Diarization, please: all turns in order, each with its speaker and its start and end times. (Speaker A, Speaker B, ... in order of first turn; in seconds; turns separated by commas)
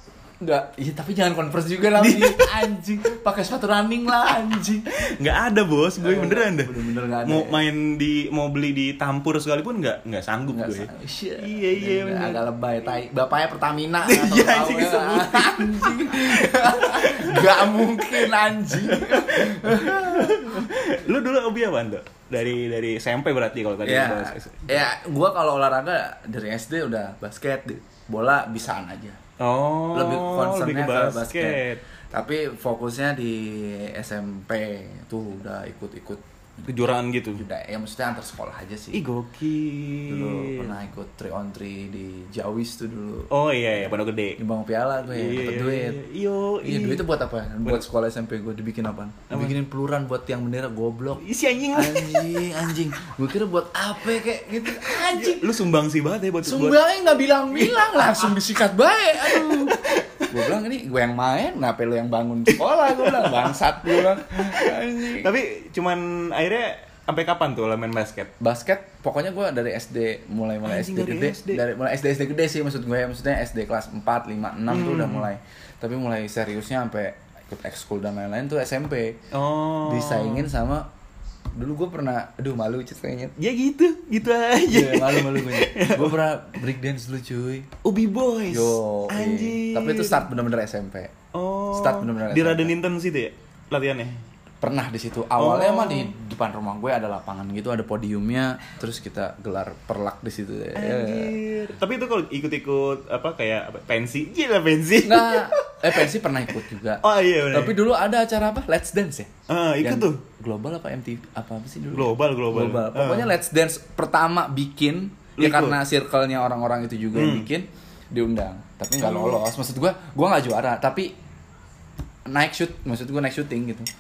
Speaker A: 0.4-4.9, Speaker B: 1.9-2.7, Speaker B: 4.9-12.4, Speaker A: 6.0-7.6, Speaker A: 10.5-20.7, Speaker B: 14.0-24.8, Speaker A: 23.8-29.2, Speaker B: 29.4-31.8, Speaker A: 29.9-36.7, Speaker B: 36.6-37.4, Speaker A: 37.3-39.0, Speaker B: 38.9-40.8, Speaker A: 40.1-46.0, Speaker B: 43.3-44.4, Speaker B: 45.0-47.0, Speaker A: 46.6-55.5, Speaker B: 49.3-49.5, Speaker B: 51.2-52.5, Speaker B: 54.6-56.8, Speaker A: 56.4-65.3, Speaker B: 57.5-58.4, Speaker B: 59.2-60.5, Speaker B: 62.5-68.3, Speaker A: 68.4-79.2, Speaker B: 70.6-71.6, Speaker B: 74.7-75.3, Speaker B: 79.3-80.5, Speaker A: 79.8-80.9, Speaker A: 81.5-83.3, Speaker B: 83.4-86.2, Speaker A: 84.7-87.7, Speaker B: 87.8-90.3, Speaker A: 88.5-91.1, Speaker B: 91.3-94.2, Speaker A: 91.7-92.7, Speaker A: 94.6-101.4, Speaker B: 95.4-96.1, Speaker B: 100.8-107.8, Speaker A: 105.0-109.3, Speaker B: 109.5-110.2, Speaker A: 109.8-121.1, Speaker B: 111.9-113.3, Speaker B: 115.4-115.8, Speaker B: 117.1-117.5, Speaker B: 119.0-119.4, Speaker A: 122.3-123.9